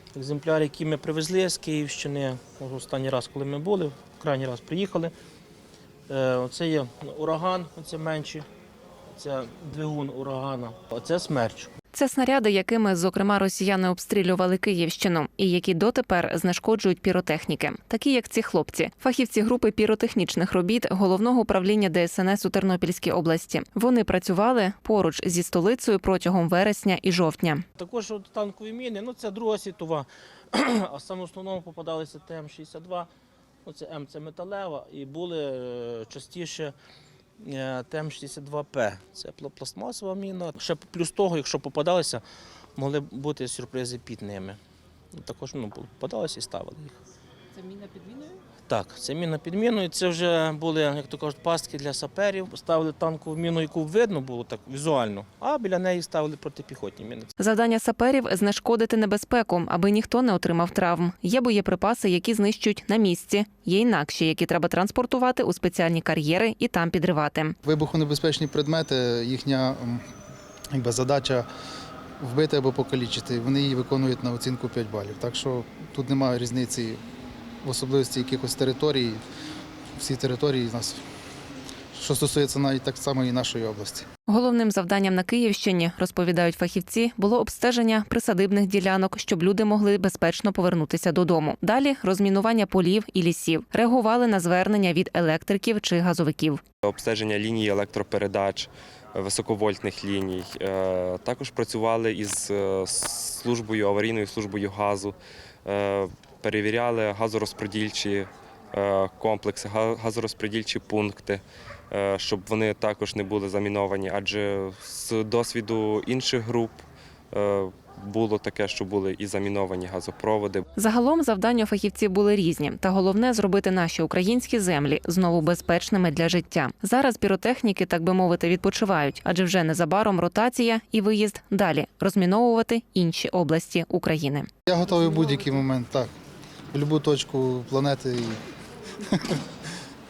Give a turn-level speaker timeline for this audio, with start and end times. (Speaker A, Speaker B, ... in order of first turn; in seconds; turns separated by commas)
Speaker A: 0.1-5.1, Speaker A: 6.1-8.4, Speaker A: 9.1-11.7, Speaker B: 11.9-27.6, Speaker A: 27.8-33.1, Speaker A: 33.6-36.7, Speaker A: 37.4-42.2, Speaker A: 42.8-44.6, Speaker A: 45.1-47.0, Speaker A: 47.6-57.3, Speaker B: 57.4-67.5, Speaker C: 67.6-70.0, Speaker C: 70.7-71.5, Speaker C: 72.2-77.0, Speaker C: 77.6-79.2, Speaker C: 80.0-81.0, Speaker C: 81.9-84.1, Speaker B: 84.3-96.6, Speaker D: 96.8-120.6, Speaker B: 120.8-134.5, Speaker C: 134.7-136.1, Speaker C: 136.7-138.4, Speaker C: 139.0-139.4